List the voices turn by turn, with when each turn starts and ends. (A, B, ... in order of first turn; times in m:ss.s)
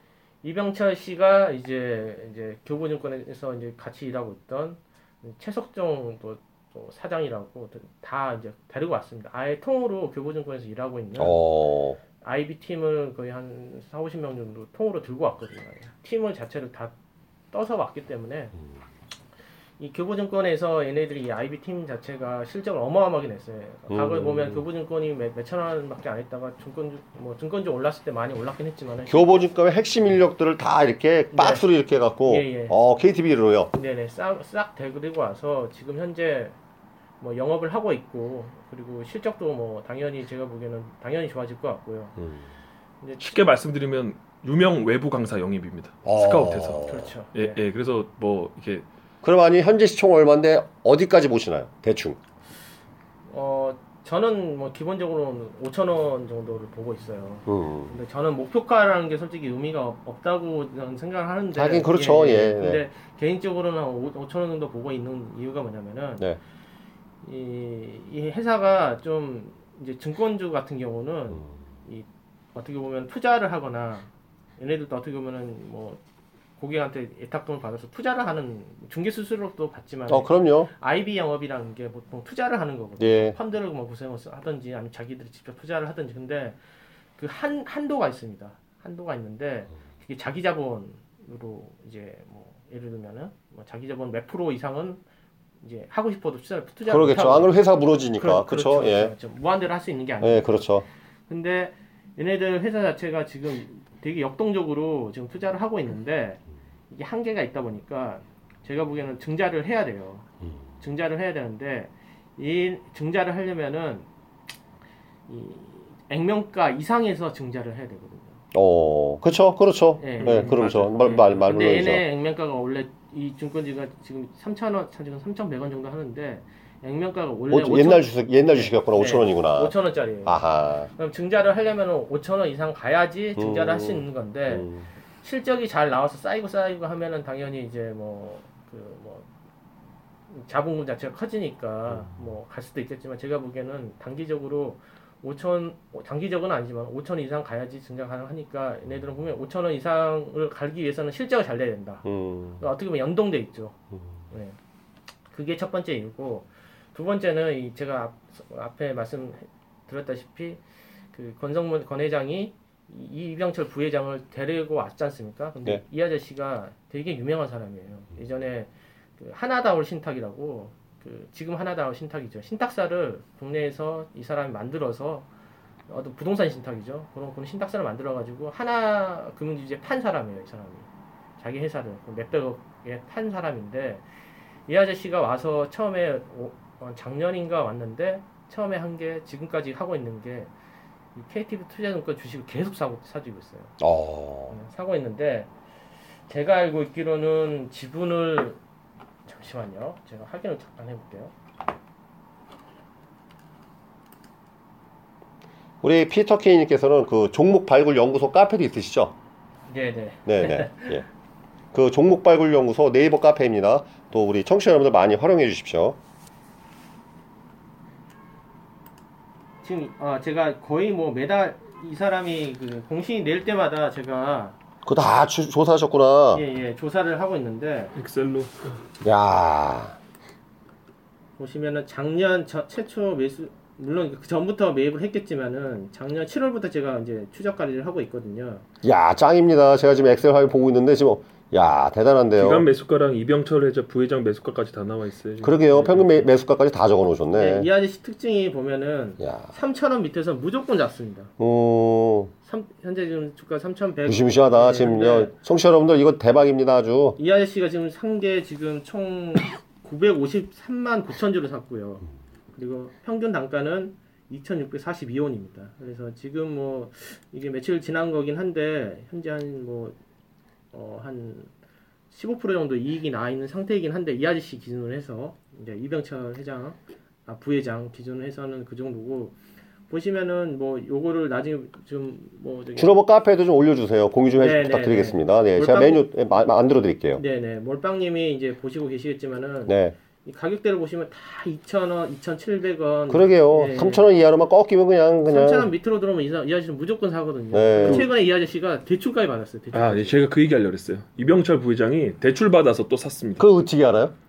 0:00.4-0:11.4 A
0:11.2-0:12.0 B
0:12.2-0:16.9 A
0:17.5-0:18.5 A
0:19.8-0:29.3 A
0:23.9-0:24.6 B
0:29.1-0:33.7 B
0:31.3-0:31.6 A
0:32.3-0:32.8 A
0:33.7-0:36.5 A
0:37.2-0:42.2 A
0:43.0-0:43.3 A
0:43.2-0:46.8 C
0:46.0-0:47.1 B
0:46.8-0:47.6 A
0:47.3-0:48.8 C
0:49.2-0:52.2 B
0:53.3-1:06.3 A
0:57.5-0:57.9 B
1:01.5-1:02.8 B
1:07.2-1:16.0 A
1:16.6-1:26.6 A
1:20.1-1:20.7 B
1:23.0-1:23.3 B
1:27.2-1:35.0 A
1:35.6-1:37.5 A
1:36.9-1:39.1 B
1:38.2-1:40.5 A
1:40.2-1:40.8 B
1:41.3-1:50.3 A
1:50.8-1:54.1 A
1:55.3-1:58.4 A
1:58.5-2:02.0 B
2:00.0-2:14.7 A
2:00.2-2:01.3 C
2:07.5-2:09.7 B
2:10.2-2:10.9 B
2:13.4-2:14.8 B
2:15.2-2:19.3 A
2:20.3-2:32.0 A
2:32.0-2:32.6 B
2:32.6-2:33.8 A
2:34.3-2:34.6 A
2:35.3-2:40.6 A
2:41.1-2:55.3 A
2:55.9-3:04.0 A
3:04.7-3:10.5 A
3:11.1-3:13.7 A
3:13.8-3:14.5 B
3:14.5-3:15.5 A
3:16.3-3:18.6 A
3:19.2-3:21.3 A
3:25.8-3:29.1 B
3:29.7-3:31.0 A
3:30.2-3:31.0 B
3:31.7-3:36.0 B
3:39.6-3:44.6 A
3:44.8-3:46.4 B
3:46.3-3:47.9 A
3:47.9-3:48.8 C
3:49.0-3:50.0 B
3:51.4-3:58.6 A
3:58.8-4:02.6 B
4:02.4-4:06.3 C
4:05.4-4:07.7 B
4:07.4-4:11.3 A
4:09.2-4:09.5 B
4:11.4-4:12.3 B
4:12.4-4:15.3 A
4:14.0-4:17.2 B
4:17.2-4:29.9 A
4:30.7-4:31.5 A
4:32.1-4:39.4 A
4:39.9-4:42.9 A
4:42.8-4:47.2 B
4:44.4-4:46.0 A
4:47.2-4:54.1 A
4:49.6-4:50.0 B
4:53.1-4:55.7 B
4:55.2-5:00.2 A
4:57.5-4:58.1 B
4:57.8-4:58.1 C
4:59.7-5:03.4 C
5:03.4-5:04.1 B